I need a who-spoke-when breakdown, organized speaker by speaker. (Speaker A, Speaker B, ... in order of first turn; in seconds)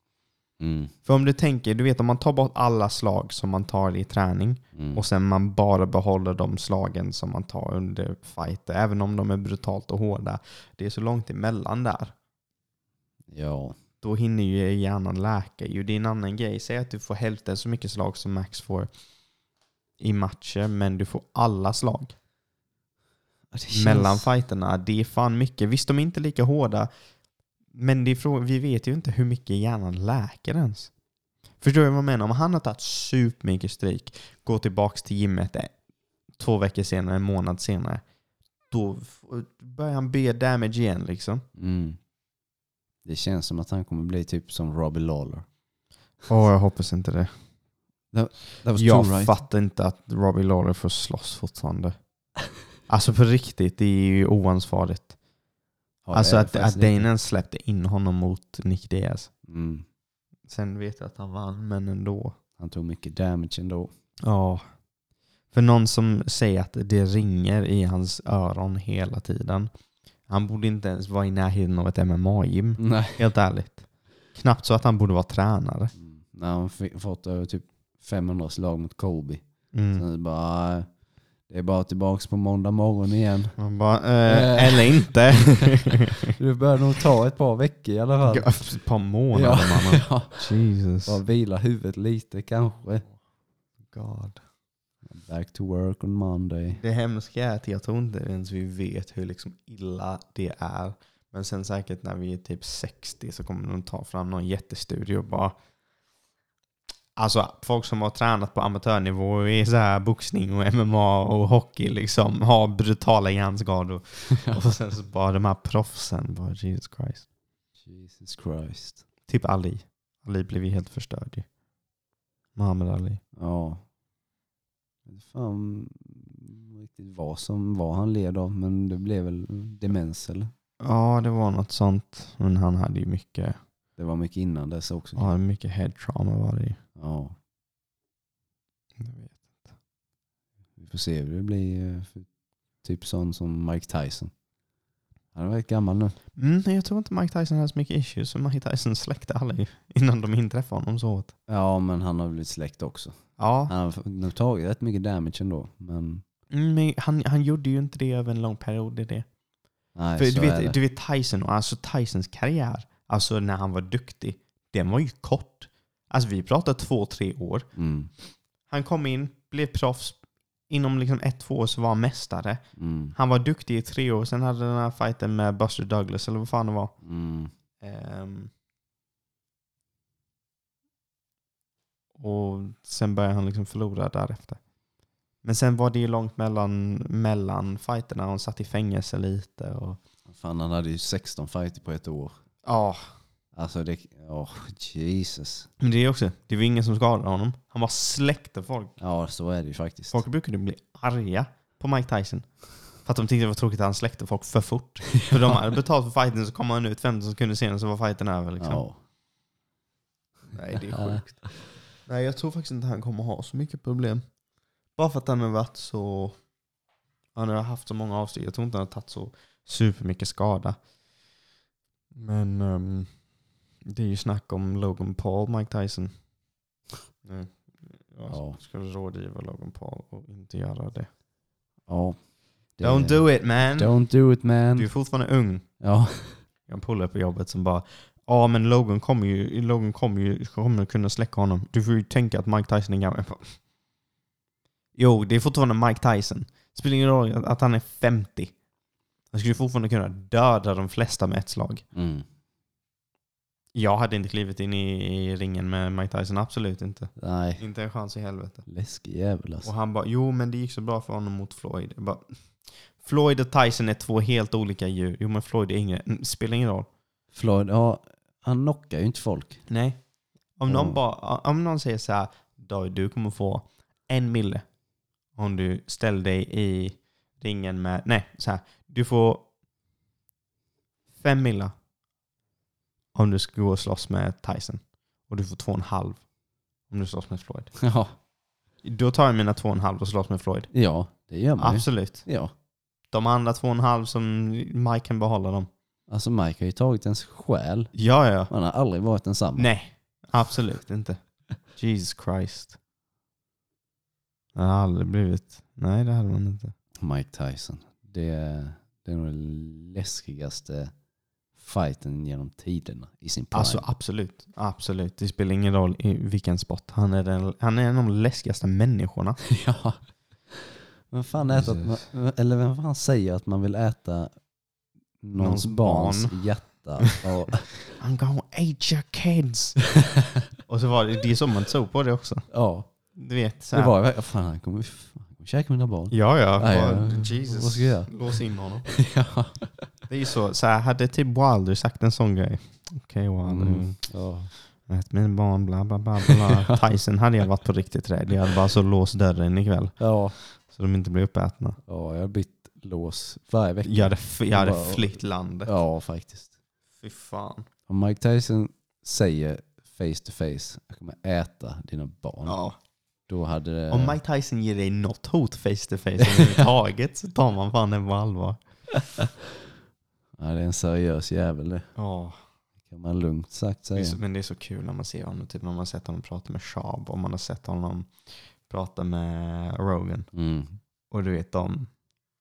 Speaker A: 0.6-0.9, 4.7-5.0, 13.3-13.8, 23.5-24.3, 41.5-42.0, 43.0-45.5, 48.1-49.4, 56.0-57.1, 59.5-59.8, 62.6-63.9, 72.8-73.2, 76.0-80.9, 81.5-83.6, 84.2-85.7, 86.4-88.5, 89.3-93.1, 95.1-96.8, 117.8-119.0, 123.4-123.8, 125.1-130.5, 134.0-135.3, 136.9-137.3, 140.8-142.3, 142.8-144.3, 145.3-146.2, 151.5-156.2, 159.9-160.8, 167.8-168.1, 172.8-173.2, 177.0-177.5, 190.3-192.3, 193.5-195.7, 199.0-200.2, 208.6-209.0, 210.9-211.3, 228.3-228.6, 231.9-232.2, 232.8-234.9, 235.8-236.4, 251.9-252.2, 257.2-257.6, 258.6-259.7, 267.3-269.6, 270.7-271.0, 287.8-288.1, 290.7-292.5, 296.1-297.9, 298.5-299.7, 307.0-310.9, 311.5-313.9, 319.5-324.3, 325.2-327.7, 332.5-332.9, 333.7-338.1, 338.9-339.9, 343.4-344.5, 346.5-346.8, 350.0-350.4, 351.9-356.5, 357.9-362.6, 363.3-364.2, 366.2-366.5, 370.4-371.9, 372.9-374.2, 380.3-380.8
Speaker B: 1.1-12.1, 14.0-18.9, 20.0-22.1, 23.7-26.9, 27.7-30.9, 31.6-35.7, 36.4-38.0, 38.7-41.4, 46.3-47.3, 48.7-52.0, 52.9-55.1, 56.1-59.3, 60.5-62.4, 64.2-64.6, 65.5-69.7, 70.3-75.9, 79.7-80.0, 83.6-86.3, 88.2-91.2, 93.9-94.4, 96.7-105.5, 107.2-117.2, 119.3-121.5, 122.5-123.2, 130.8-133.6, 135.2-136.8, 139.0-139.5, 146.3-151.3, 153.4-153.7, 156.5-159.3, 160.2-167.7, 168.7-172.6, 173.2-176.9, 177.8-178.5, 182.2-184.6, 185.4-190.0, 192.6-193.1, 195.8-198.9, 200.1-208.8, 210.5-214.2, 214.9-216.4, 217.3-220.8, 222.1-223.1, 223.8-226.1, 227.2-231.1, 232.8-233.9, 234.7-235.7, 236.7-243.6, 245.0-248.5, 249.3-251.8, 253.7-258.6, 259.6-262.3, 263.0-266.9, 269.7-270.0, 270.6-274.6, 275.4-279.5, 281.2-281.7, 283.1-286.2, 286.9-287.7, 288.8-290.7, 291.6-292.3, 293.1-295.7, 297.9-298.5, 299.6-302.8, 304.5-306.7, 313.5-319.4, 321.4-322.1, 325.4-326.4, 327.8-329.9, 330.6-332.5, 333.1-333.9, 336.1-338.9, 340.1-344.1, 344.9-351.8, 353.8-355.7, 357.0-357.7, 362.4-362.8, 363.9-368.6, 371.9-372.4, 373.9-380.3, 381.1-381.9